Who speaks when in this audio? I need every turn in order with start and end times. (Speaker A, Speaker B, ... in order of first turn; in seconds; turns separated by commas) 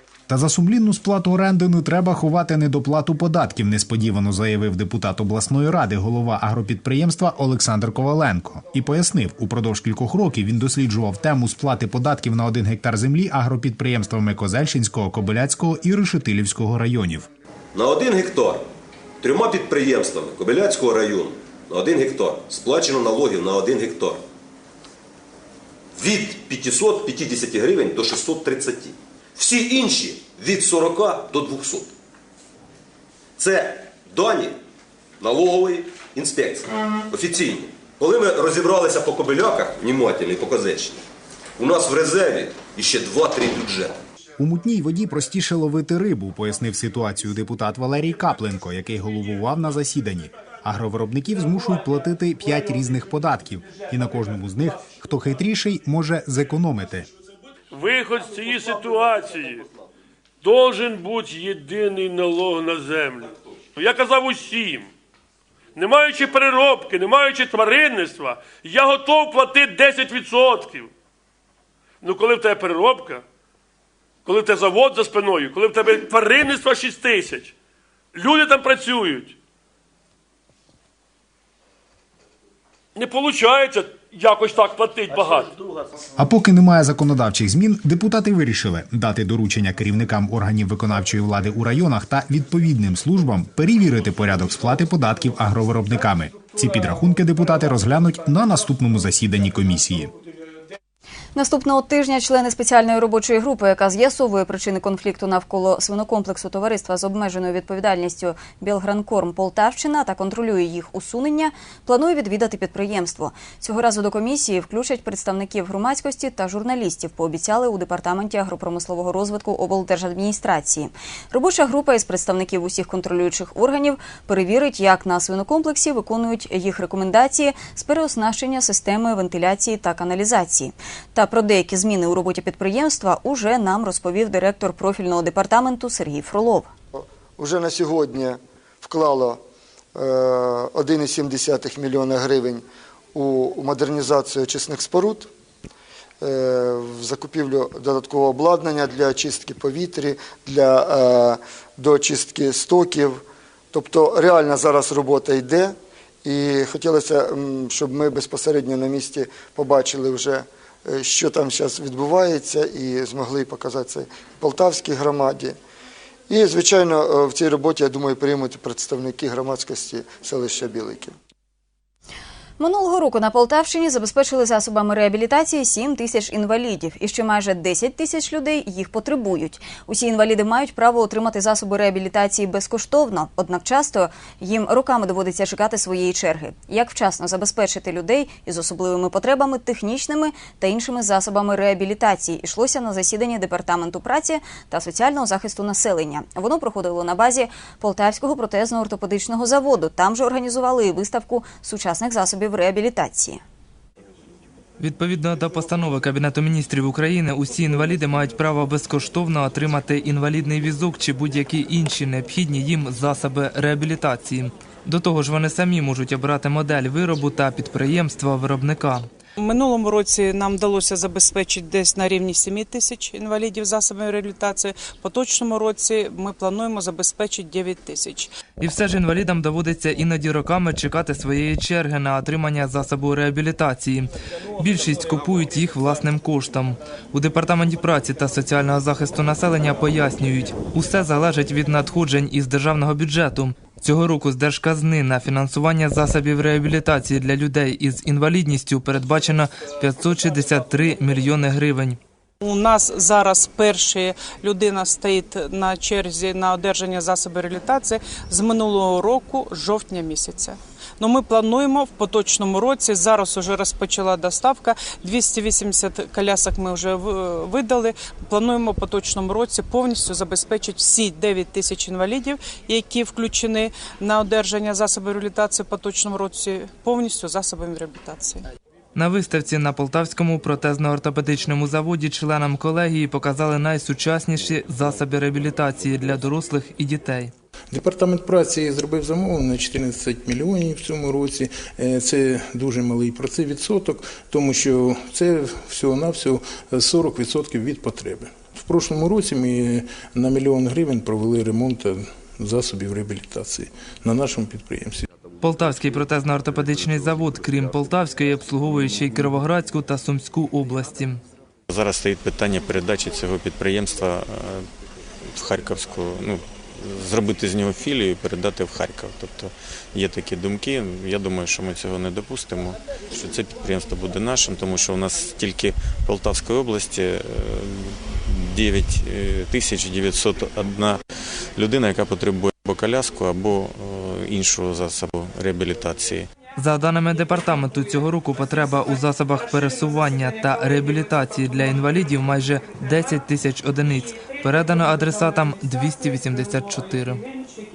Speaker A: 0.3-17.3, Speaker B: 17.7-18.7, Speaker B: 19.2-24.2, Speaker B: 25.9-31.9, Speaker B: 33.4-34.6, Speaker B: 35.2-41.0, Speaker B: 41.6-44.0, Speaker A: 44.4-57.1, Speaker C: 57.7-59.6, Speaker C: 60.4-64.9, Speaker C: 65.8-70.9, Speaker C: 72.0-73.2, Speaker C: 74.3-77.5, Speaker C: 78.2-79.3, Speaker C: 83.0-85.5, Speaker A: 86.2-100.1, Speaker D: 101.3-136.7, Speaker E: 136.9-139.4, Speaker E: 139.9-145.3, Speaker E: 146.2-165.6, Speaker E: 166.3-171.1, Speaker D: 172.6-203.4, Speaker F: 204.8-219.1, Speaker G: 219.4-228.3, Speaker F: 228.6-252.0, Speaker G: 252.4-278.4, Speaker F: 278.9-287.3, Speaker H: 287.7-305.1, Speaker F: 305.4-311.2, Speaker I: 311.7-314.7, Speaker I: 315.2-331.0, Speaker I: 331.6-336.3, Speaker F: 336.6-347.2